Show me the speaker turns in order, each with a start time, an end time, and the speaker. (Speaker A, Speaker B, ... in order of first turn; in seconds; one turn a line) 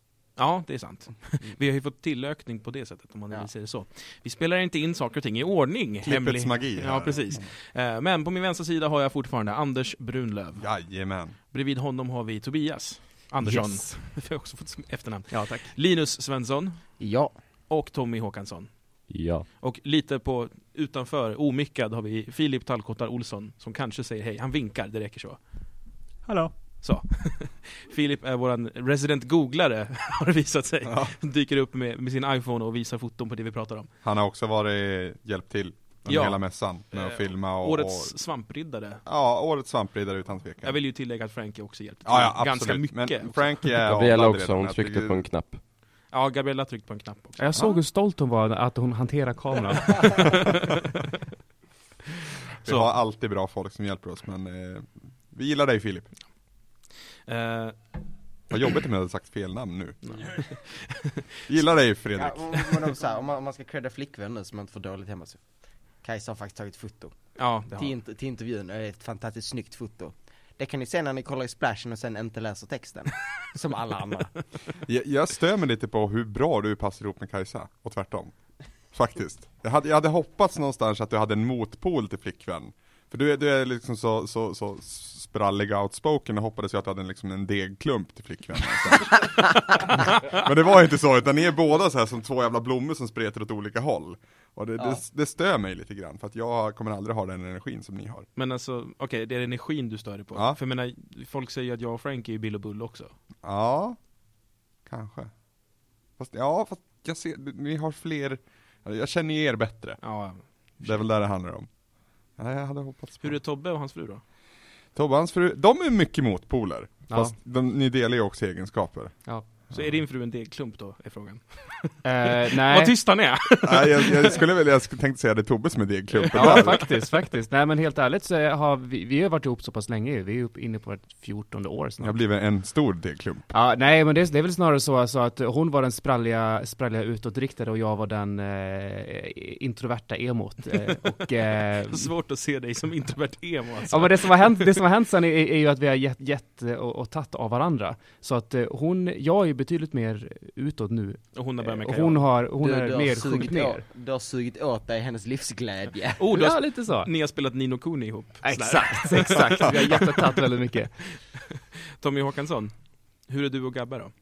Speaker A: 0.4-10.7
Speaker B: 6.1-7.5
Speaker B: 10.6-11.4
Speaker A: 11.5-17.0
Speaker C: 13.4-13.9
Speaker C: 15.3-15.7
Speaker D: 17.0-17.4
Speaker A: 17.7-18.7
Speaker E: 19.1-19.5
Speaker A: 19.6-25.4
Speaker A: 26.8-33.9
Speaker B: 30.9-31.1
Speaker B: 34.0-38.1
Speaker A: 36.1-39.0
Speaker B: 39.1-40.8
Speaker A: 40.6-43.7
Speaker B: 42.1-45.2
Speaker E: 43.9-45.6
Speaker A: 46.1-47.8
Speaker C: 47.4-50.7
Speaker B: 52.6-56.1
Speaker A: 52.6-52.9
Speaker A: 57.3-58.0
Speaker B: 58.5-60.4
Speaker A: 60.0-61.2
Speaker B: 61.5-62.5
Speaker D: 62.2-65.4
Speaker D: 66.0-74.4
Speaker A: 67.4-68.0
Speaker B: 74.8-78.3
Speaker B: 78.9-98.3
Speaker A: 98.4-103.1
Speaker B: 103.4-104.0
Speaker B: 104.9-105.3
Speaker B: 106.2-110.0
Speaker A: 110.0-111.0
Speaker B: 110.8-111.7
Speaker B: 112.4-113.4
Speaker A: 113.2-114.2
Speaker B: 115.0-119.2
Speaker A: 119.7-124.4
Speaker C: 122.0-123.0
Speaker B: 123.6-126.8
Speaker A: 126.2-126.9
Speaker C: 126.3-132.2
Speaker B: 132.0-133.5
Speaker C: 133.5-142.1
Speaker A: 141.9-144.7
Speaker C: 143.9-153.8
Speaker A: 151.3-152.3
Speaker D: 152.6-156.2
Speaker A: 156.2-160.1
Speaker C: 156.3-157.1
Speaker C: 158.4-160.9
Speaker D: 158.8-159.4
Speaker A: 162.0-164.1